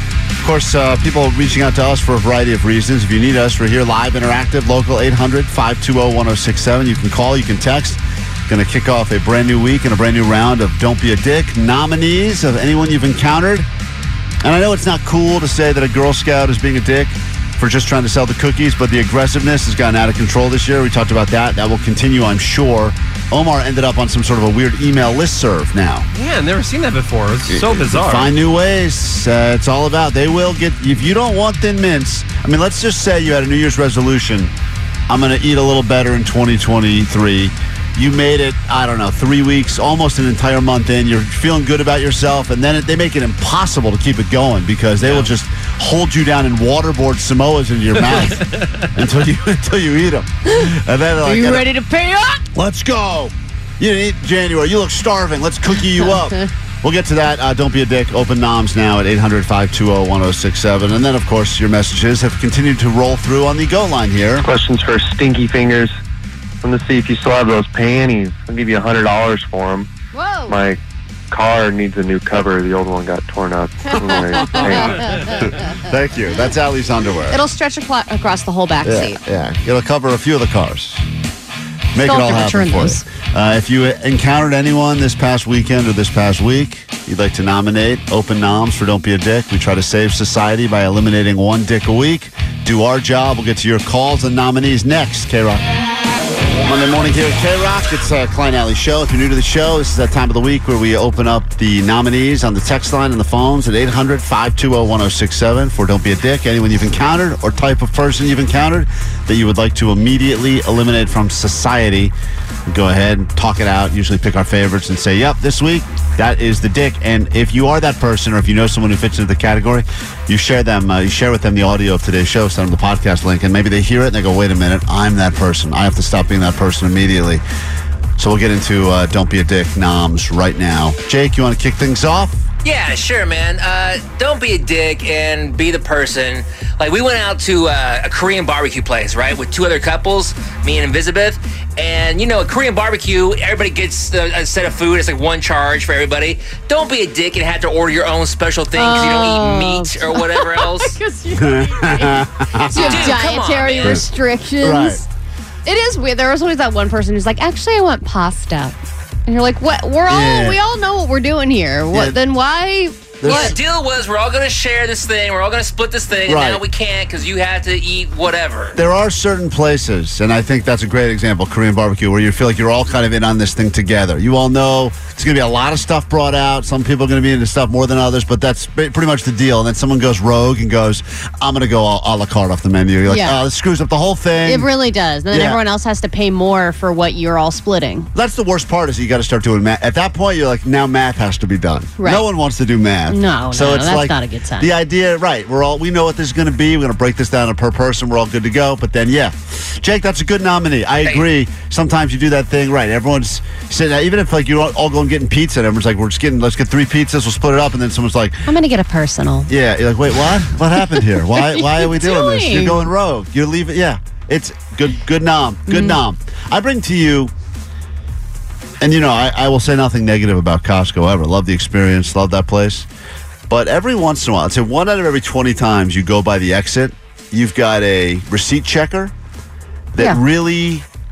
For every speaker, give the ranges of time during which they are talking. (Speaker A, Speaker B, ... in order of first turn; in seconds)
Speaker A: 0.4-13.7, 14.4-26.1, 27.5-34.5, 35.1-51.6, 52.6-52.9, 53.8-64.5, 74.0-74.8, 75.4-77.4, 78.8-81.1, 81.9-95.7, 96.6-112.1, 112.7-127.4, 128.2-132.5, 151.4-153.2, 154.6-155.0, 160.1-160.6, 161.9-162.2, 163.2-163.6, 166.3-166.6, 168.8-184.7, 185.3-185.6, 188.2-208.5, 209.5-217.3, 218.8-222.9, 223.5-229.1, 229.9-230.8
Speaker B: 26.1-28.3, 45.0-45.3, 48.4-48.7
Speaker C: 51.2-52.4, 56.0-56.5, 70.1-70.6, 74.0-75.7, 77.3-79.2, 82.0-83.0, 148.8-155.0, 155.7-163.6, 183.1-183.4, 184.4-188.1, 192.0-192.2, 193.1-194.7, 208.5-209.5, 211.3-212.8, 215.7-216.0
Speaker D: 64.4-66.0, 66.6-69.9, 70.5-75.1
Speaker E: 132.6-151.0, 152.7-154.0, 163.2-168.8